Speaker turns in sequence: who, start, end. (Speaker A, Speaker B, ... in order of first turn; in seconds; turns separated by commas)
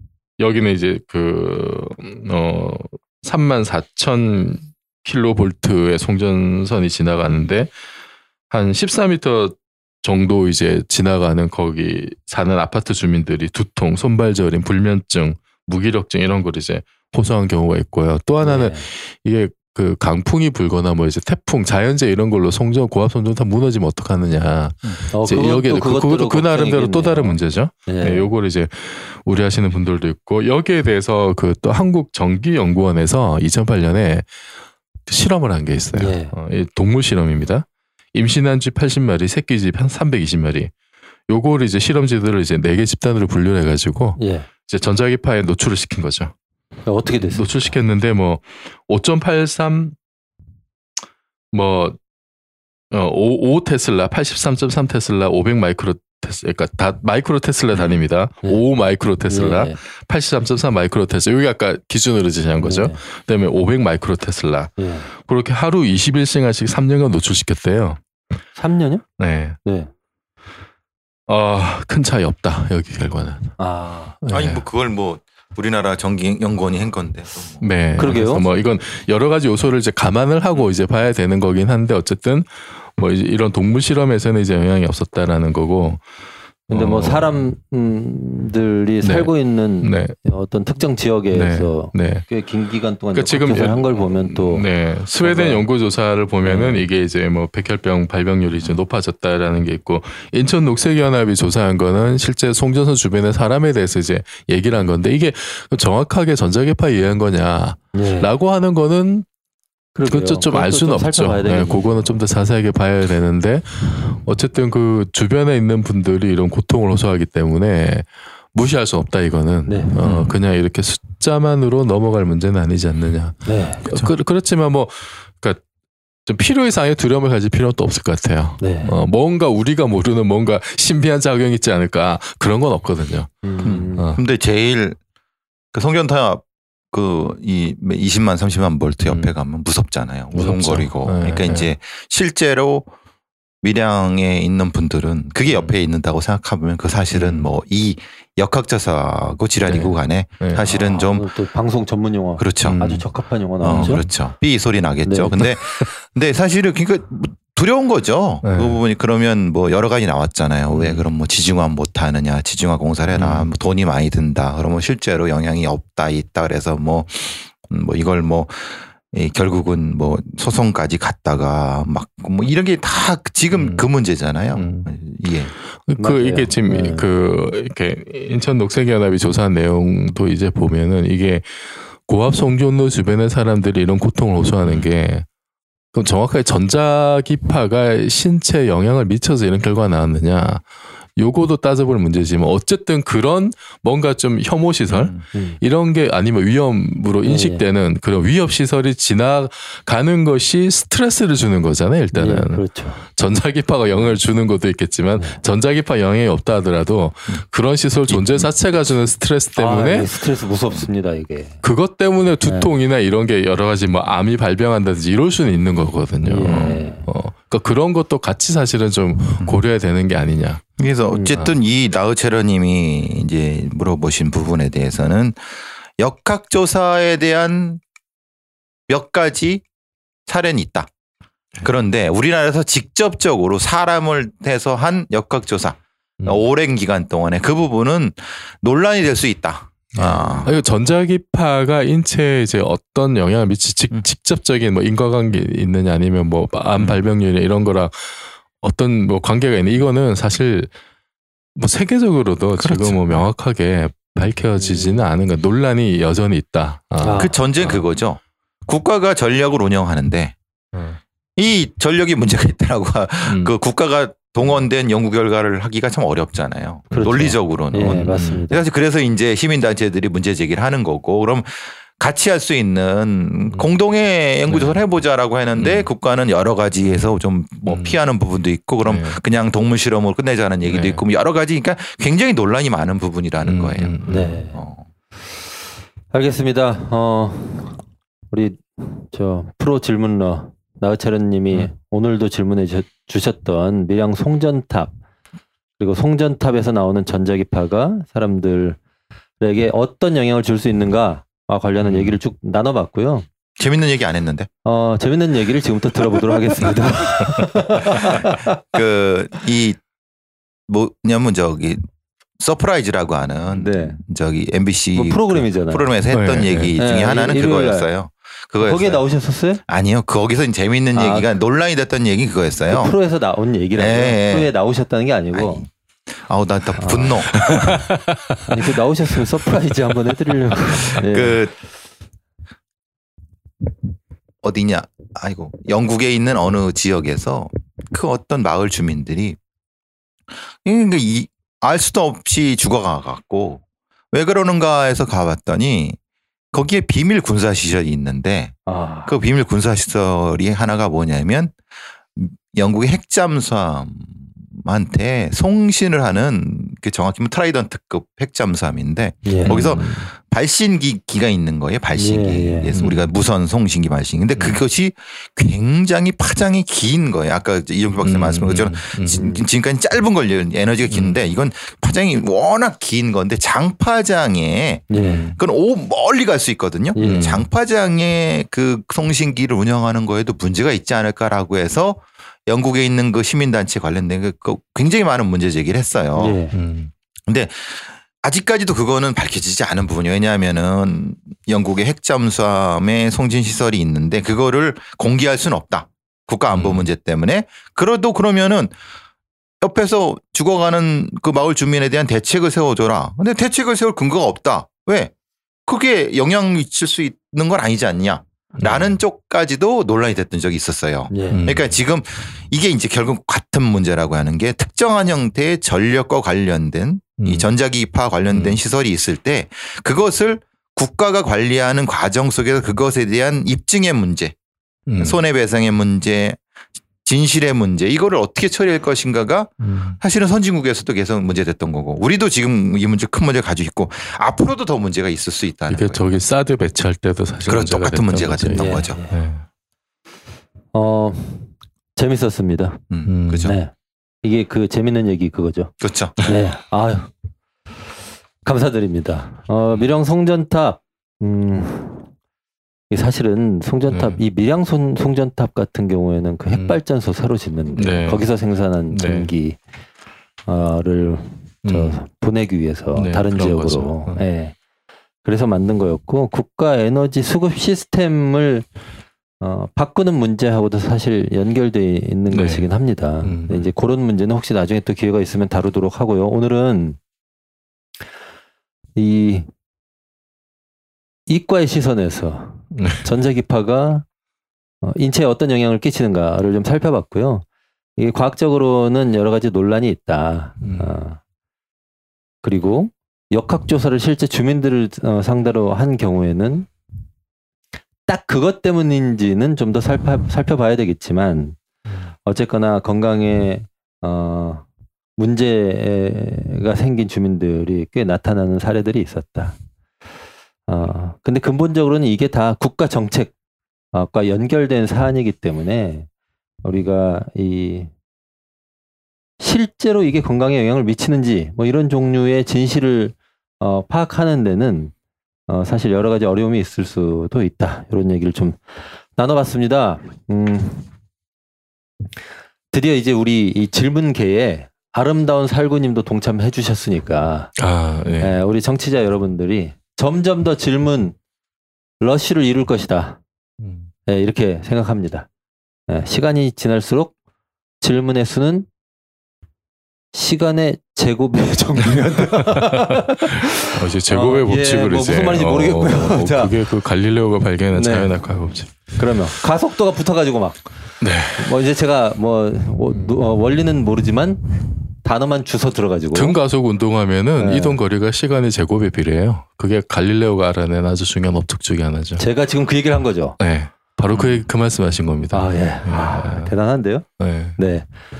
Speaker A: 0.4-7.7, Speaker A: 8.5-34.2, Speaker B: 18.4-18.9, Speaker B: 25.1-28.3, Speaker A: 35.1-40.7, Speaker B: 36.0-36.3, Speaker A: 41.3-46.3, Speaker B: 44.2-44.5, Speaker B: 46.9-47.7, Speaker A: 47.2-50.0, Speaker A: 51.5-52.0, Speaker A: 52.9-68.0, Speaker B: 59.3-59.8, Speaker B: 62.6-63.0, Speaker B: 64.8-65.1, Speaker B: 68.6-69.0, Speaker A: 69.2-69.6, Speaker B: 69.7-69.9, Speaker A: 71.3-73.5, Speaker B: 73.6-74.2, Speaker A: 74.2-74.6, Speaker C: 74.3-77.7, Speaker A: 77.6-86.0, Speaker B: 78.0-78.4, Speaker A: 86.7-87.3, Speaker B: 86.7-94.7, Speaker A: 89.0-90.2, Speaker A: 91.3-92.3, Speaker A: 93.1-109.3, Speaker B: 95.2-95.7, Speaker B: 96.4-96.9, Speaker B: 107.9-108.3, Speaker B: 110.0-112.1, Speaker A: 110.1-125.6, Speaker B: 119.7-120.0, Speaker C: 120.0-120.3, Speaker B: 123.5-123.9, Speaker A: 126.3-134.2, Speaker B: 128.6-128.9, Speaker B: 133.4-134.1, Speaker C: 133.6-135.0, Speaker C: 135.7-142.9, Speaker A: 140.3-141.7, Speaker C: 143.6-151.3, Speaker A: 147.1-147.5, Speaker A: 149.7-150.7, Speaker B: 150.7-154.0, Speaker C: 152.4-152.8, Speaker A: 152.6-153.1, Speaker C: 153.6-175.5, Speaker A: 153.7-154.0, Speaker B: 155.1-155.3, Speaker A: 158.4-158.8, Speaker A: 160.7-161.0, Speaker A: 163.2-163.5, Speaker A: 173.5-173.9, Speaker A: 174.6-174.9, Speaker A: 175.8-185.3, Speaker B: 176.0-177.1, Speaker C: 184.6-184.9, Speaker A: 185.9-190.6, Speaker A: 191.2-210.1, Speaker C: 194.9-195.2, Speaker B: 195.3-195.6, Speaker B: 197.2-197.6, Speaker B: 202.1-203.0, Speaker C: 208.1-208.9, Speaker B: 209.6-211.6, Speaker A: 211.6-220.6, Speaker B: 212.4-212.7, Speaker B: 216.2-217.0, Speaker C: 216.5-216.8, Speaker C: 220.8-227.8, Speaker B: 221.1-221.4, Speaker C: 228.9-229.6, Speaker C: 230.3-230.9, Speaker C: 231.6-240.5, Speaker A: 239.9-250.7, Speaker A: 251.6-257.8, Speaker C: 252.6-253.2, Speaker B: 257.0-257.4, Speaker C: 257.2-260.4, Speaker A: 260.7-261.0, Speaker C: 261.4-284.0, Speaker A: 263.3-263.5, Speaker B: 266.9-268.6, Speaker A: 267.9-268.5, Speaker A: 274.5-274.8, Speaker A: 275.6-275.9, Speaker A: 277.7-278.0, Speaker A: 278.9-279.2, Speaker A: 280.7-281.0, Speaker A: 283.4-284.4, Speaker B: 284.1-284.6, Speaker C: 284.5-284.8, Speaker B: 286.1-294.9, Speaker B: 295.8-298.8, Speaker B: 299.4-303.3, Speaker C: 303.6-304.5, Speaker B: 304.6-308.6, Speaker C: 308.0-309.8, Speaker C: 310.7-311.8, Speaker C: 312.4-319.0, Speaker B: 313.5-314.0, Speaker B: 314.9-315.9, Speaker A: 316.1-316.7, Speaker B: 316.8-317.9, Speaker B: 318.6-319.6, Speaker C: 319.7-322.9, Speaker B: 320.9-321.3, Speaker B: 322.7-325.6, Speaker C: 323.8-324.5, Speaker C: 325.3-327.8, Speaker B: 326.8-327.3, Speaker A: 327.4-328.4, Speaker B: 328.5-331.4, Speaker C: 331.0-331.5, Speaker C: 334.4-339.4, Speaker C: 340.6-346.0, Speaker C: 346.5-351.6, Speaker B: 348.7-349.1, Speaker C: 352.1-386.4, Speaker B: 359.2-360.1, Speaker A: 359.4-359.8, Speaker B: 361.9-362.7, Speaker A: 362.7-363.0, Speaker A: 368.0-369.2, Speaker B: 369.1-369.4, Speaker A: 370.9-371.1, Speaker B: 374.9-375.3, Speaker A: 374.9-375.4, Speaker B: 376.9-377.3, Speaker A: 377.0-377.4, Speaker B: 386.2-386.6, Speaker A: 386.5-386.9, Speaker C: 387.3-398.7, Speaker A: 396.5-396.9, Speaker C: 399.6-405.1, Speaker C: 405.7-424.4, Speaker A: 408.6-408.9, Speaker B: 411.1-411.5, Speaker A: 411.3-411.7, Speaker A: 417.2-417.5, Speaker A: 418.3-418.6, Speaker A: 424.9-425.2, Speaker C: 425.0-426.4, Speaker C: 427.0-436.0, Speaker A: 429.6-430.0, Speaker A: 435.7-439.4, Speaker C: 437.4-439.0, Speaker B: 438.6-439.2, Speaker B: 440.7-442.8, Speaker C: 442.9-443.6, Speaker A: 443.1-443.5, Speaker B: 443.4-443.7, Speaker B: 444.2-447.1, Speaker C: 445.8-446.2, Speaker B: 448.4-452.1, Speaker B: 452.9-459.6, Speaker A: 453.9-454.2, Speaker A: 456.5-456.8, Speaker A: 457.8-458.3, Speaker A: 458.9-459.3, Speaker B: 460.5-464.6, Speaker A: 461.6-462.0, Speaker A: 463.0-464.2, Speaker B: 465.2-468.7, Speaker B: 469.4-477.0, Speaker A: 472.3-472.7, Speaker A: 473.2-473.7, Speaker B: 478.9-479.5, Speaker B: 481.3-484.1, Speaker A: 482.7-483.0, Speaker B: 484.8-487.4, Speaker B: 488.0-491.2, Speaker A: 490.6-490.9, Speaker B: 492.4-496.7, Speaker B: 498.1-501.6, Speaker B: 502.2-504.6, Speaker B: 505.2-509.6, Speaker B: 510.7-513.3, Speaker B: 513.9-516.1, Speaker B: 516.6-517.9, Speaker B: 519.4-524.9, Speaker B: 525.5-530.9, Speaker B: 532.7-537.5, Speaker A: 537.6-538.4, Speaker B: 538.2-541.2, Speaker B: 542.0-543.2, Speaker A: 543.6-543.9, Speaker B: 544.1-545.3, Speaker B: 545.9-547.1, Speaker B: 547.8-548.7, Speaker B: 550.1-556.5, Speaker A: 552.4-559.0, Speaker B: 557.7-558.1, Speaker B: 559.0-560.6, Speaker A: 561.0-561.5, Speaker B: 561.4-566.4, Speaker A: 562.9-563.2, Speaker A: 566.1-572.2, Speaker B: 567.4-567.8, Speaker B: 572.2-573.4, Speaker A: 573.4-576.5, Speaker C: 574.1-574.4, Speaker B: 575.3-577.1, Speaker A: 577.2-577.6, Speaker B: 577.6-577.9